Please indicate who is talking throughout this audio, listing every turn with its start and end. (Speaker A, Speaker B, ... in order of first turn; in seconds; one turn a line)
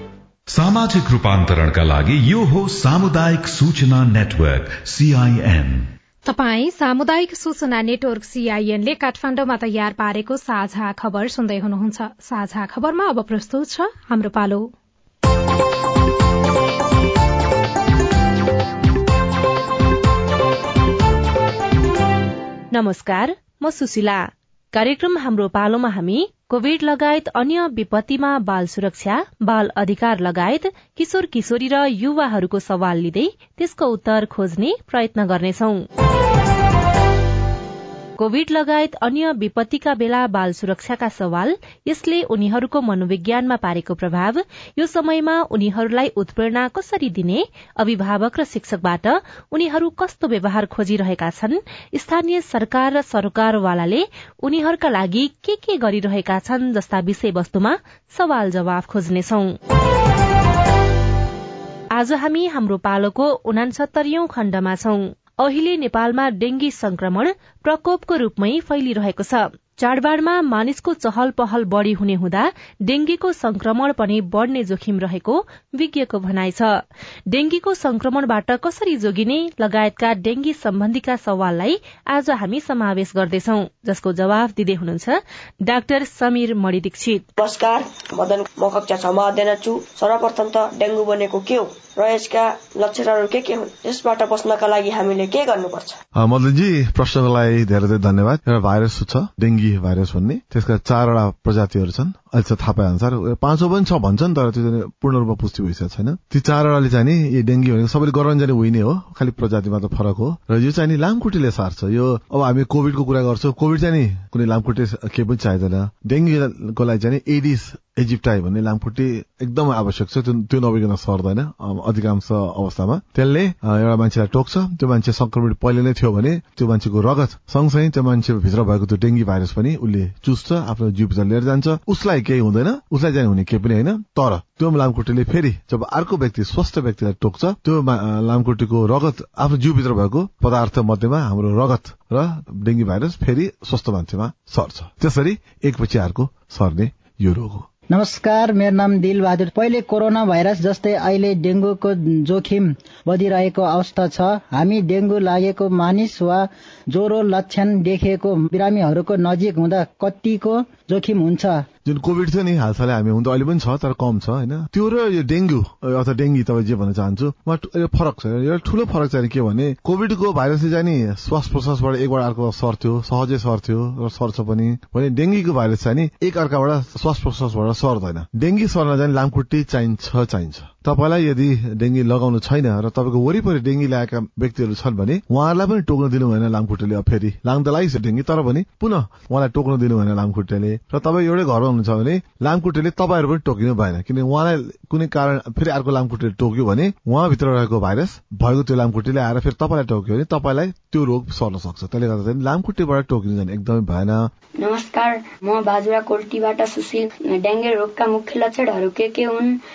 Speaker A: 0.5-5.8
Speaker B: 6.3-14.7
Speaker C: 22.7-35.9
Speaker C: 38.2-59.6
Speaker C: 61.9-87.2
Speaker D: 87.4-96.0
Speaker E: 96.2-147.7
Speaker F: 147.9-161.7
Speaker E: 161.8-204.3
Speaker G: 204.6-209.5